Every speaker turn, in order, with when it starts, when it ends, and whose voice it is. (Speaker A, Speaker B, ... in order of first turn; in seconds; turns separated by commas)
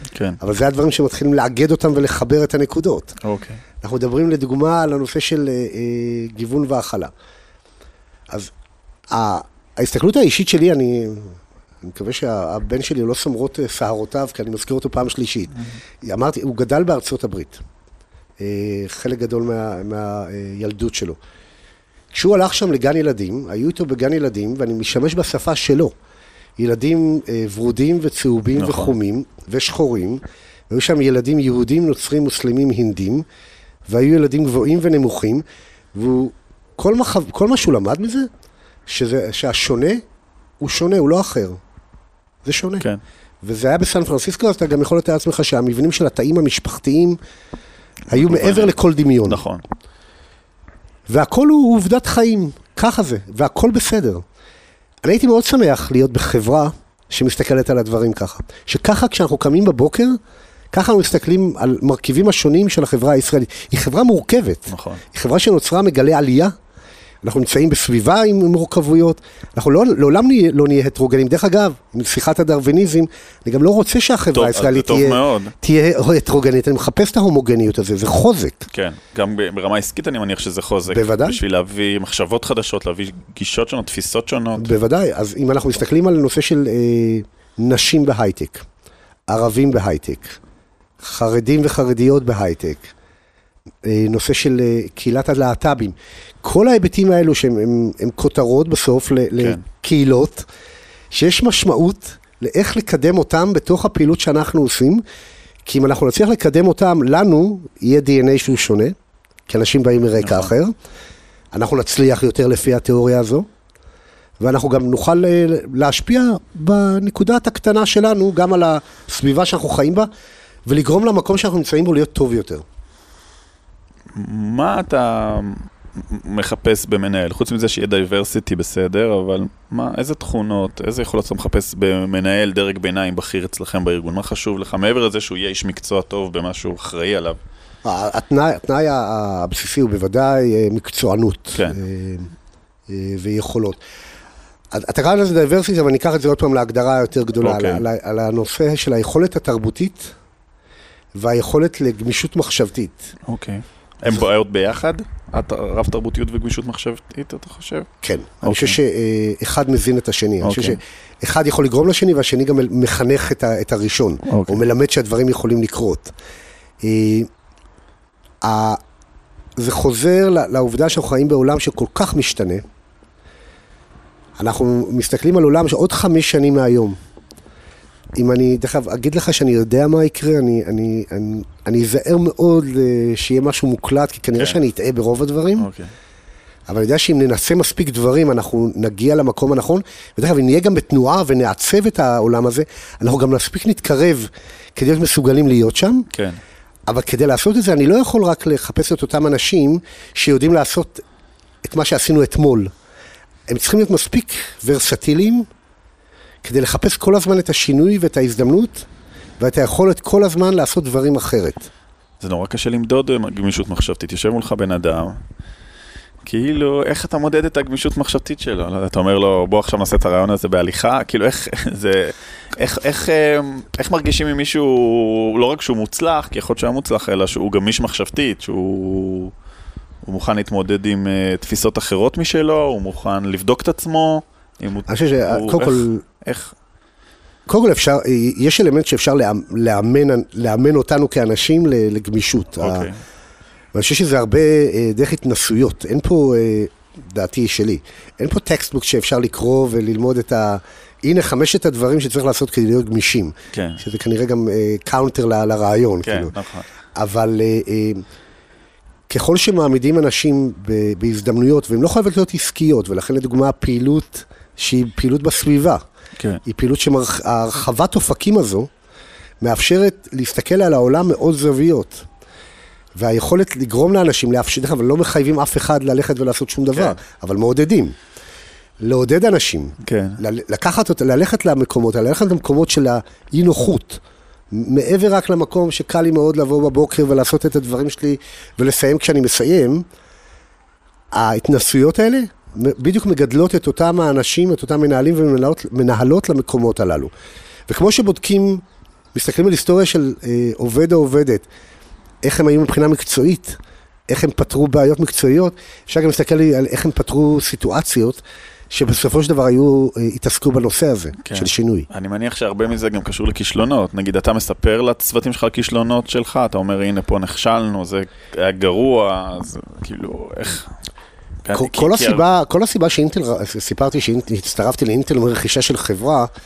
Speaker A: 0.1-0.4, Speaker B: 0.4-3.1, Speaker A: 3.2-3.6, Speaker B: 3.8-7.1, Speaker B: 9.1-17.6, Speaker B: 18.4-21.2, Speaker B: 22.1-25.9, Speaker B: 26.6-33.3, Speaker A: 28.6-29.0, Speaker B: 33.9-38.3, Speaker B: 38.9-40.0, Speaker B: 40.6-41.6, Speaker B: 42.4-42.9, Speaker B: 43.4-47.2, Speaker A: 48.1-49.6, Speaker B: 48.1-49.4, Speaker B: 51.1-54.2, Speaker B: 55.0-60.2, Speaker B: 60.7-66.5, Speaker A: 64.7-65.0, Speaker B: 67.2-78.6, Speaker A: 74.3-75.5, Speaker A: 78.7-84.7, Speaker B: 80.9-81.4, Speaker B: 84.6-88.7, Speaker B: 89.3-90.4, Speaker B: 91.0-92.9, Speaker B: 93.8-100.5, Speaker B: 101.1-105.0, Speaker B: 105.7-109.0, Speaker B: 109.5-110.7, Speaker A: 110.2-110.5, Speaker B: 111.5-113.5, Speaker B: 114.4-120.1, Speaker B: 120.7-122.6, Speaker A: 124.2-137.4, Speaker B: 137.8-142.3, Speaker B: 142.9-143.8, Speaker B: 144.7-150.2, Speaker A: 147.4-147.8, Speaker B: 151.2-153.1, Speaker A: 153.3-157.9, Speaker B: 158.0-166.1, Speaker A: 158.4-158.8, Speaker A: 160.4-160.8, Speaker A: 164.3-164.6, Speaker B: 166.8-167.3, Speaker B: 168.4-168.8, Speaker B: 169.6-172.6, Speaker B: 174.4-177.0, Speaker B: 178.2-185.7, Speaker A: 185.6-185.9, Speaker B: 186.7-196.1, Speaker A: 196.1-196.4, Speaker B: 196.9-201.0, Speaker B: 201.6-202.7, Speaker B: 203.5-205.5, Speaker B: 206.4-208.9, Speaker B: 209.4-211.7, Speaker A: 212.2-215.2, Speaker A: 216.2-229.3, Speaker A: 230.0-236.5, Speaker B: 234.9-236.0, Speaker B: 237.5-242.9, Speaker A: 242.6-243.0, Speaker B: 243.7-256.4, Speaker A: 253.5-253.8, Speaker A: 256.0-256.7, Speaker B: 257.0-258.1, Speaker B: 259.1-265.8, Speaker B: 266.4-268.7, Speaker B: 269.4-272.1, Speaker B: 273.0-277.9, Speaker B: 278.8-289.9, Speaker A: 279.8-280.2, Speaker B: 291.1-297.1, Speaker B: 297.7-298.6, Speaker B: 299.1-301.5, Speaker B: 302.2-311.9, Speaker A: 311.2-320.7, Speaker A: 321.4-322.3, Speaker B: 321.5-326.3